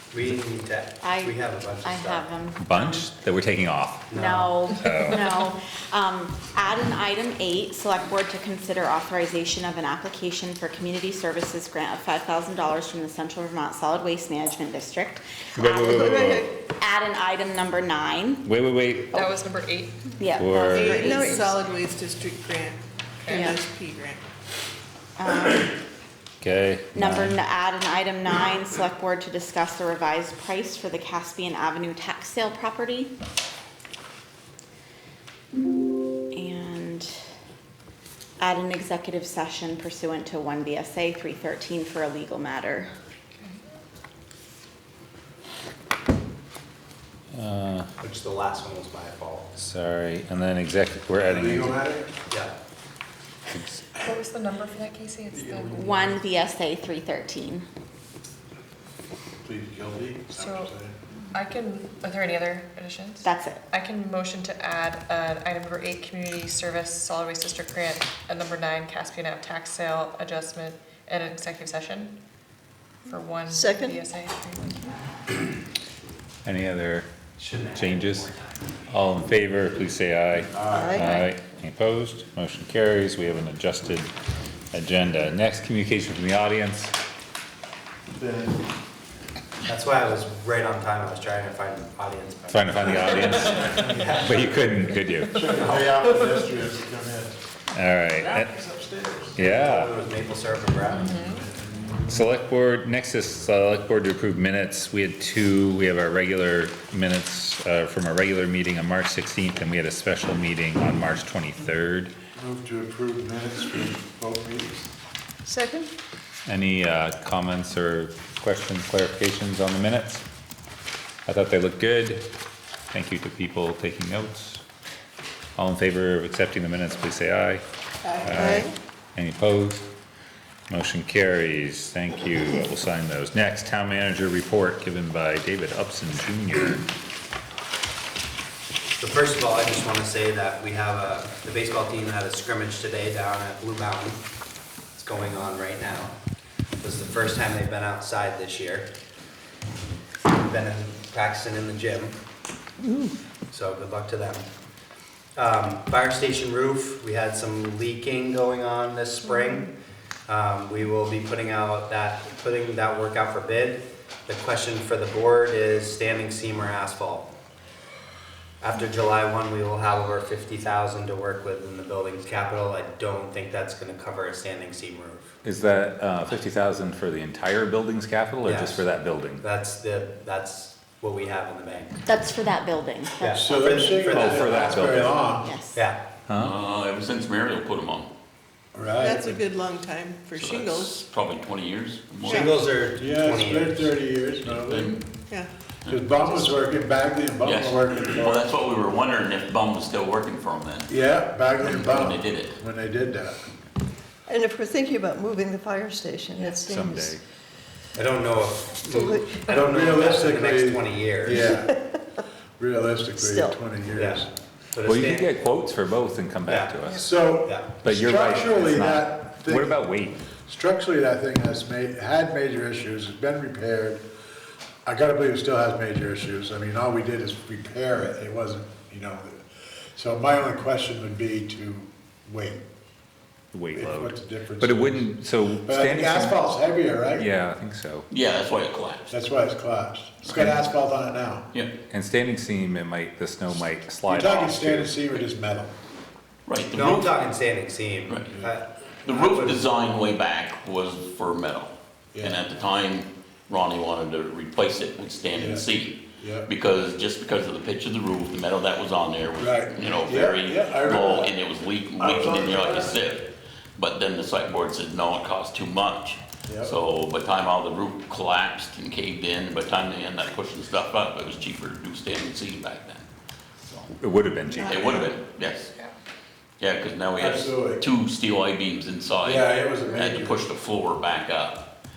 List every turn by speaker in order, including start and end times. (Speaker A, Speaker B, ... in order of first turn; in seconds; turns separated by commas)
Speaker A: 0.1-2.2, Speaker B: 1.0-3.1, Speaker C: 2.6-4.1, Speaker A: 4.1-4.5, Speaker B: 4.1-18.5, Speaker C: 4.8-5.2, Speaker C: 15.6-16.5, Speaker D: 15.9-16.4, Speaker C: 18.4-19.2, Speaker E: 19.1-20.2, Speaker B: 20.2-21.6, Speaker C: 20.4-21.1, Speaker F: 20.7-24.2, Speaker E: 23.2-23.5, Speaker B: 23.3-23.6, Speaker B: 25.2-25.8, Speaker C: 26.4-27.4, Speaker B: 26.9-33.1, Speaker B: 36.3-37.1, Speaker B: 38.4-42.9, Speaker E: 43.3-43.6, Speaker C: 47.3-47.9, Speaker A: 48.0-49.5, Speaker C: 49.5-51.8, Speaker G: 51.2-52.1, Speaker C: 53.5-53.9, Speaker E: 54.0-56.1, Speaker G: 55.3-55.9, Speaker B: 55.7-57.6, Speaker G: 59.4-61.0, Speaker E: 60.4-60.7, Speaker E: 61.3-72.2, Speaker B: 63.2-63.6, Speaker E: 73.0-74.8, Speaker D: 73.5-74.0, Speaker C: 76.4-77.1, Speaker A: 77.4-78.4, Speaker C: 77.8-78.3, Speaker C: 78.9-84.1, Speaker G: 80.5-81.0, Speaker D: 80.7-81.0, Speaker C: 84.7-86.9, Speaker G: 88.2-88.6, Speaker A: 89.7-94.7, Speaker C: 92.5-95.7, Speaker G: 93.4-94.2, Speaker G: 95.3-97.4, Speaker C: 97.7-98.5, Speaker G: 98.2-99.5, Speaker C: 99.3-99.9, Speaker A: 99.4-101.1, Speaker E: 100.9-101.4, Speaker G: 101.2-102.1, Speaker C: 102.1-112.1, Speaker G: 112.3-114.9, Speaker D: 115.5-115.9, Speaker C: 116.5-120.2, Speaker C: 121.2-122.3, Speaker C: 122.9-124.6, Speaker C: 125.6-127.6, Speaker D: 128.0-128.7, Speaker C: 128.2-129.9, Speaker C: 130.7-136.8, Speaker A: 139.0-144.2, Speaker A: 144.9-146.1, Speaker A: 146.8-148.9, Speaker A: 150.3-152.1, Speaker A: 153.5-154.5, Speaker A: 155.3-159.7, Speaker A: 160.3-167.3, Speaker A: 168.6-175.2, Speaker C: 175.4-179.4, Speaker A: 178.4-178.9, Speaker A: 179.4-182.0, Speaker B: 182.0-183.4, Speaker A: 183.2-185.2, Speaker G: 183.4-185.5, Speaker C: 184.2-185.2, Speaker B: 185.4-185.8, Speaker A: 185.7-186.0, Speaker C: 186.3-186.5, Speaker H: 186.3-188.1, Speaker G: 188.7-189.4, Speaker F: 189.0-191.0, Speaker H: 190.3-192.6, Speaker A: 192.2-193.9, Speaker G: 193.0-195.1, Speaker H: 194.4-195.0, Speaker H: 195.8-196.6, Speaker G: 195.9-198.5, Speaker H: 197.4-200.9, Speaker G: 200.9-203.4, Speaker H: 201.6-202.6, Speaker D: 204.3-207.2, Speaker C: 206.3-207.2, Speaker A: 207.9-211.5, Speaker D: 208.9-209.4, Speaker G: 209.5-211.7, Speaker G: 212.6-214.3, Speaker D: 213.2-213.6, Speaker A: 213.9-215.3, Speaker C: 214.8-217.1, Speaker A: 216.4-216.8, Speaker G: 216.9-219.8, Speaker A: 217.3-217.8, Speaker C: 217.8-220.2, Speaker G: 220.4-224.0, Speaker G: 224.8-229.4, Speaker G: 229.9-232.6, Speaker C: 233.5-236.4, Speaker G: 233.7-237.3, Speaker C: 237.1-238.1, Speaker H: 238.1-239.1, Speaker G: 239.1-241.5, Speaker C: 241.9-245.0, Speaker G: 244.1-245.7, Speaker H: 246.5-247.3, Speaker A: 246.7-248.6, Speaker G: 248.3-249.6, Speaker H: 249.0-273.1, Speaker G: 252.1-252.4, Speaker G: 255.3-255.7, Speaker G: 256.2-256.5, Speaker G: 259.4-261.4, Speaker G: 261.9-263.0, Speaker G: 266.5-266.8, Speaker H: 273.6-273.9, Speaker C: 273.9-275.1, Speaker H: 274.6-275.7, Speaker H: 276.6-281.7, Speaker G: 277.2-277.8, Speaker G: 279.2-280.5